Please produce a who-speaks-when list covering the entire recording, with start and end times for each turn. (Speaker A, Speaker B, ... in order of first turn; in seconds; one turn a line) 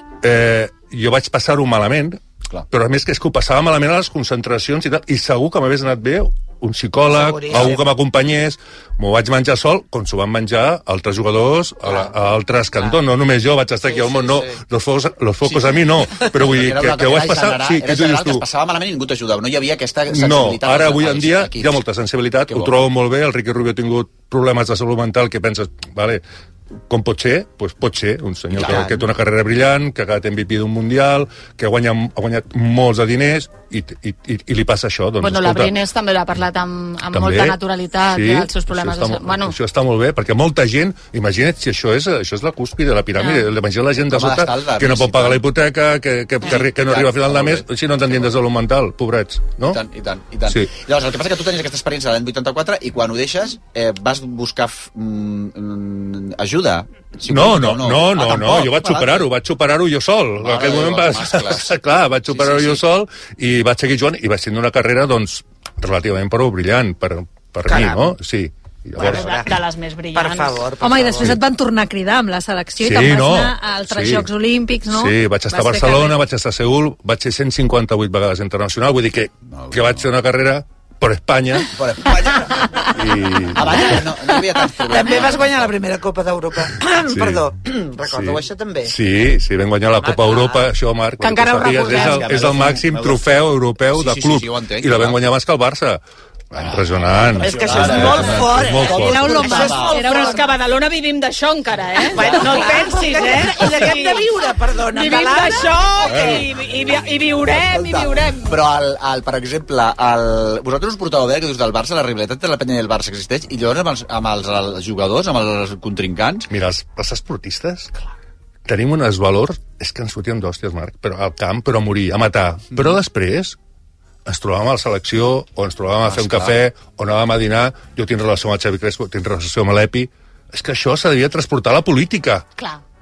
Speaker A: 0.2-18.4
Speaker B: 7.0-7.8
Speaker C: 12.8-13.0
Speaker C: 13.8-14.6
Speaker C: 15.4-21.8
Speaker A: 20.1-26.2
Speaker C: 22.5-22.9
Speaker A: 26.9-35.7
Speaker C: 28.5-29.1
Speaker D: 35.2-39.5
Speaker A: 37.1-37.6
Speaker A: 38.1-49.8
Speaker D: 43.1-43.5
Speaker C: 44.0-45.5
Speaker C: 46.4-48.4
Speaker C: 49.6-59.3
Speaker A: 57.3-69.3
Speaker C: 60.4-62.9
Speaker B: 67.7-68.1
Speaker B: 69.0-69.5
Speaker D: 69.0-70.6
Speaker B: 70.1-71.4
Speaker E: 70.8-76.2
Speaker A: 72.8-74.3
Speaker A: 74.9-81.7
Speaker C: 79.5-80.1
Speaker C: 81.7-82.9
Speaker A: 82.8-84.1
Speaker C: 83.5-85.7
Speaker B: 84.8-88.9
Speaker A: 87.0-87.4
Speaker A: 88.1-96.0
Speaker B: 90.0-90.6
Speaker D: 91.2-92.3
Speaker C: 91.7-95.2
Speaker C: 96.5-100.0
Speaker A: 96.6-99.3
Speaker B: 97.3-100.4
Speaker E: 99.0-100.4
Speaker D: 99.7-104.2
Speaker B: 102.1-106.4
Speaker C: 102.1-102.9
Speaker D: 104.9-108.5
Speaker A: 106.1-106.4
Speaker C: 107.5-116.5
Speaker A: 116.5-118.0
Speaker A: 118.7-123.5
Speaker A: 124.2-132.4
Speaker C: 126.0-126.6